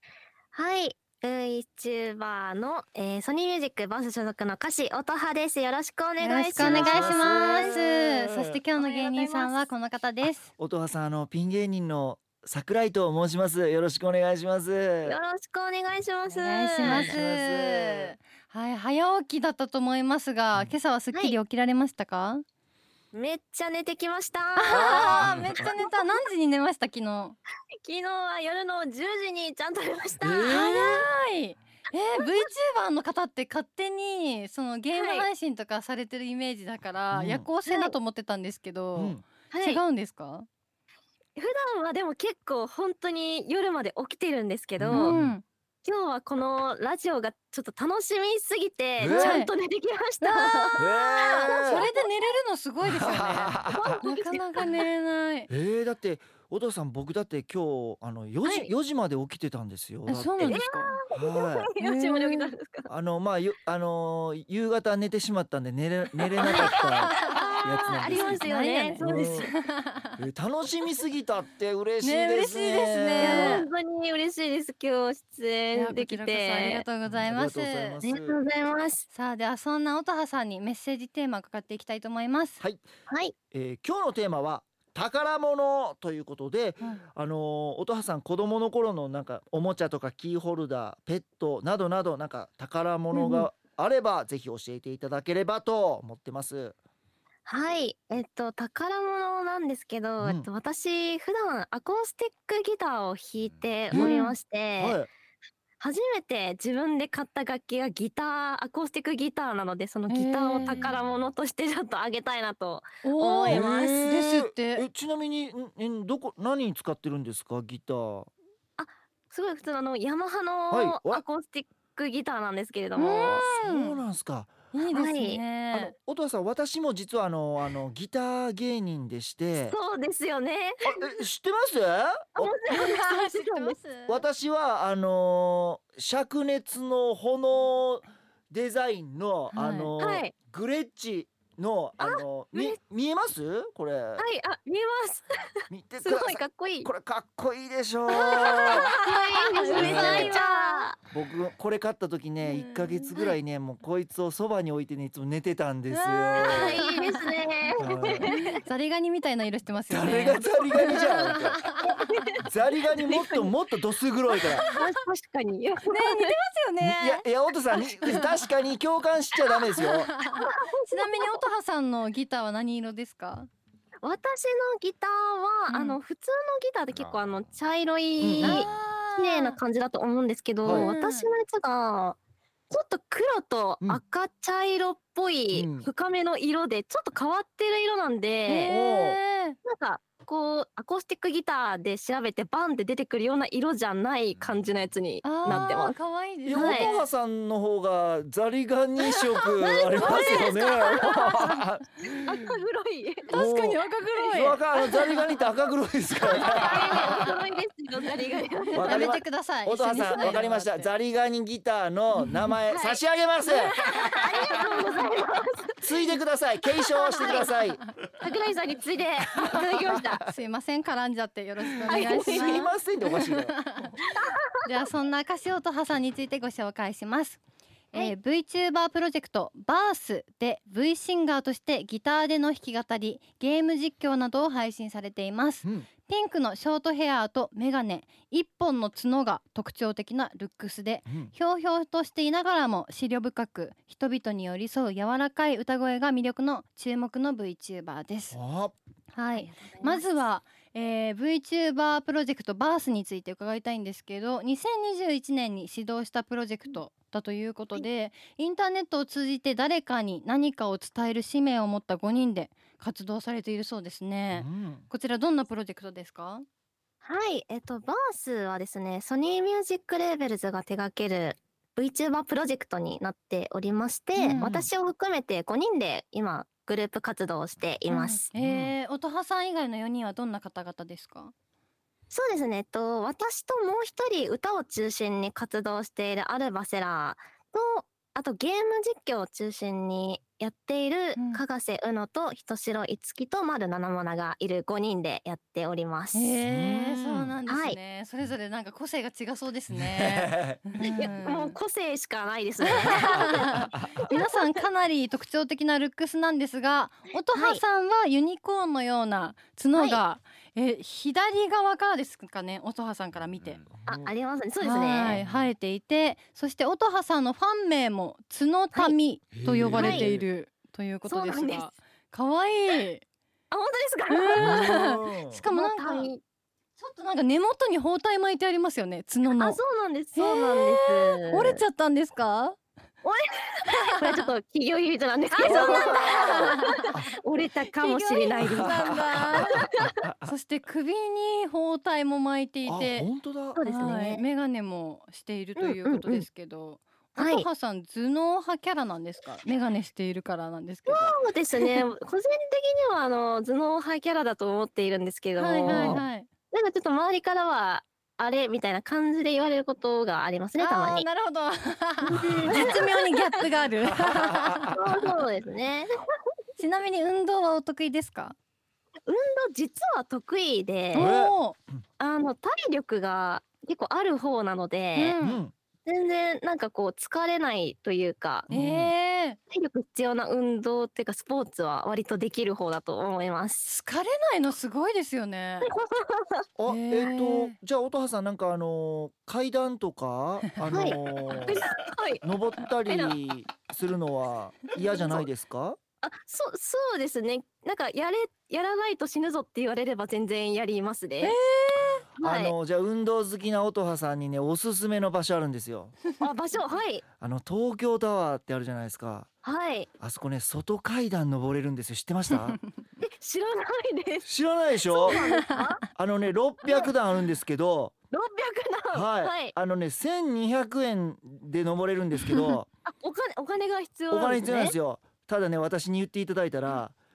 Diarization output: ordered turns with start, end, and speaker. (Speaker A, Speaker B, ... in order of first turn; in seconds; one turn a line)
Speaker A: 0.5-7.8
Speaker B: 6.2-10.5
Speaker C: 6.5-8.6
Speaker A: 8.8-9.7
Speaker C: 10.6-15.2
Speaker A: 15.0-17.1
Speaker B: 16.3-22.4
Speaker C: 16.8-18.1
Speaker A: 23.1-26.2
Speaker B: 24.6-27.4
Speaker C: 24.7-25.7
Speaker A: 27.8-31.1
Speaker C: 30.2-31.0
Speaker B: 30.5-40.5
Speaker A: 34.9-35.3
Speaker C: 37.1-37.5
Speaker A: 37.6-37.9
Speaker C: 39.0-39.2
Speaker A: 39.5-39.8
Speaker A: 41.4-45.1
Speaker C: 44.8-45.3
Speaker B: 44.9-45.4
Speaker A: 45.8-52.1
Speaker C: 49.0-49.4
Speaker B: 49.1-49.5
Speaker B: 50.2-55.5
Speaker C: 50.8-51.9
Speaker C: 52.8-54.0
Speaker A: 53.7-54.5
Speaker C: 55.5-60.6
Speaker A: 58.4-58.7
Speaker B: 60.1-61.0
Speaker A: 60.4-62.9
Speaker C: 61.1-61.7
Speaker B: 61.8-62.5
Speaker C: 62.9-68.5
Speaker A: 66.4-69.5
Speaker B: 66.5-67.5
Speaker B: 68.4-70.2
Speaker C: 69.0-69.5
Speaker C: 70.2-73.6
Speaker B: 72.0-73.7
Speaker A: 73.2-76.8
Speaker B: 75.7-78.0
Speaker C: 77.0-78.4
Speaker A: 78.0-79.0
Speaker B: 79.1-82.6
Speaker A: 83.1-83.3
Speaker C: 83.5-96.8
Speaker A: 93.1-93.5
Speaker A: 97.5-105.0
Speaker C: 100.2-100.5
Speaker C: 103.9-104.2
Speaker B: 103.9-104.3
Speaker C: 104.8-105.1
Speaker A: 105.8-114.1
Speaker B: 110.1-110.9
Speaker B: 113.0-114.8
Speaker C: 113.5-118.3
Speaker A: 118.8-123.5
Speaker C: 120.7-121.2
Speaker B: 123.0-124.0
Speaker C: 123.5-124.5
Speaker B: 124.7-125.9
Speaker A: 124.9-125.4
Speaker C: 125.7-129.8
Speaker A: 129.6-131.0
Speaker C: 130.8-132.5
Speaker A: 132.3-133.8
Speaker B: 132.7-134.2
Speaker C: 134.1-144.2
Speaker B: 139.5-139.9
Speaker A: 140.0-140.3
Speaker A: 142.0-142.8
Speaker A: 144.2-145.3
Speaker C: 145.7-148.9
Speaker A: 146.0-146.9
Speaker A: 148.1-151.0
Speaker B: 148.1-150.9
Speaker C: 149.8-150.4
Speaker C: 151.1-156.8
Speaker B: 152.4-153.3
Speaker B: 155.9-157.3
Speaker A: 156.4-158.5
Speaker C: 157.8-158.3
Speaker B: 158.3-161.9
Speaker C: 159.9-161.7
Speaker A: 161.8-162.4
Speaker C: 162.4-164.7
Speaker A: 163.0-163.5
Speaker A: 164.5-166.3
Speaker B: 164.6-164.9
Speaker B: 165.9-167.2
Speaker C: 166.8-170.1
Speaker B: 168.0-168.5
Speaker B: 169.8-173.5
Speaker A: 170.3-171.4
Speaker A: 174.0-182.2
Speaker B: 175.7-176.0
Speaker C: 178.2-178.7
Speaker B: 178.4-179.6
Speaker C: 180.6-180.9
Speaker B: 180.7-181.3
Speaker A: 182.7-188.8
Speaker C: 185.5-185.9
Speaker B: 188.4-189.6
Speaker C: 188.7-189.2
Speaker A: 189.6-196.0
Speaker B: 195.2-197.1
Speaker C: 195.4-195.7
Speaker C: 196.4-202.0
Speaker A: 196.5-196.9
Speaker A: 199.1-201.4
Speaker B: 200.0-201.6
Speaker A: 202.2-203.3
Speaker B: 203.3-205.2
Speaker C: 203.3-207.4
Speaker A: 206.3-209.1
Speaker B: 206.4-207.3
Speaker C: 208.7-214.7
Speaker B: 208.8-210.9
Speaker A: 210.0-210.4
Speaker B: 212.2-212.5
Speaker A: 212.7-213.0
Speaker B: 213.4-215.0
Speaker A: 213.6-215.8
Speaker C: 215.8-217.9
Speaker B: 217.0-217.8
Speaker A: 217.1-217.6
Speaker A: 218.2-220.2
Speaker C: 219.4-220.2
Speaker B: 220.2-223.9
Speaker C: 221.8-223.9
Speaker A: 221.9-222.6
Speaker B: 224.6-227.4
Speaker B: 227.9-248.4
Speaker C: 241.1-241.3
Speaker C: 248.3-248.7
Speaker B: 249.1-266.4
Speaker A: 249.3-250.2
Speaker C: 264.3-264.9
Speaker A: 267.0-278.3
Speaker B: 274.2-274.5
Speaker C: 274.3-274.7
Speaker B: 277.9-281.3
Speaker C: 278.3-278.7
Speaker A: 282.1-296.3
Speaker B: 291.2-291.4
Speaker B: 296.1-301.6
Speaker C: 296.4-297.4
Speaker A: 297.5-297.8
Speaker C: 299.7-300.6
Speaker A: 300.8-303.5
Speaker B: 302.6-313.6
Speaker C: 303.0-304.1
Speaker A: 304.1-304.4
Speaker A: 307.3-307.6
Speaker A: 309.7-310.0
Speaker A: 313.9-315.2
Speaker B: 314.6-323.0
Speaker C: 315.1-315.5
Speaker C: 319.3-320.2
Speaker A: 319.7-320.1
Speaker A: 321.1-321.7
Speaker A: 323.5-324.9
Speaker B: 324.1-326.1
Speaker C: 324.4-325.4
Speaker A: 325.5-326.2
Speaker B: 326.8-329.6
Speaker A: 329.3-331.6
Speaker B: 330.1-332.6
Speaker A: 333.0-338.8
Speaker B: 335.3-336.9
Speaker C: 335.4-337.1
Speaker B: 337.7-339.7
Speaker C: 338.4-340.3
Speaker A: 339.4-339.9
Speaker B: 340.2-343.1
Speaker C: 342.6-343.6
Speaker A: 343.5-344.2
Speaker B: 343.6-351.9
Speaker A: 345.6-346.2
Speaker A: 347.1-347.5
Speaker A: 350.9-361.1
Speaker B: 355.4-356.3
Speaker C: 355.7-356.0
Speaker B: 360.6-364.8
Speaker C: 362.1-362.8
Speaker A: 362.1-363.1
Speaker C: 363.9-364.8
Speaker A: 364.7-365.9
Speaker B: 366.6-368.4
Speaker A: 369.1-371.1
Speaker C: 370.9-371.4
Speaker B: 370.9-371.6
Speaker A: 372.0-375.2
Speaker B: 374.9-375.4
Speaker C: 375.2-375.5
Speaker A: 375.9-378.5
Speaker C: 378.5-378.9
Speaker B: 378.5-379.4
Speaker A: 379.5-383.7
Speaker B: 383.6-385.7
Speaker A: 385.6-386.4
Speaker C: 386.6-391.7
Speaker B: 386.7-387.6
Speaker A: 390.7-392.2
Speaker B: 390.8-391.4
Speaker C: 392.2-395.8
Speaker A: 392.9-393.1
Speaker A: 394.8-395.3
Speaker A: 396.0-401.3
Speaker B: 401.2-402.0
Speaker A: 402.2-402.5
Speaker C: 402.2-406.0
Speaker A: 406.2-407.0
Speaker C: 407.2-409.3
Speaker A: 409.4-409.9
Speaker C: 410.0-412.6
Speaker A: 413.0-414.3
Speaker C: 414.2-415.2
Speaker A: 415.0-415.8
Speaker B: 415.1-415.7
Speaker C: 415.9-417.9
Speaker A: 416.6-416.9
Speaker A: 418.1-419.5
Speaker C: 418.9-422.7
Speaker A: 422.8-424.8
Speaker C: 424.1-427.0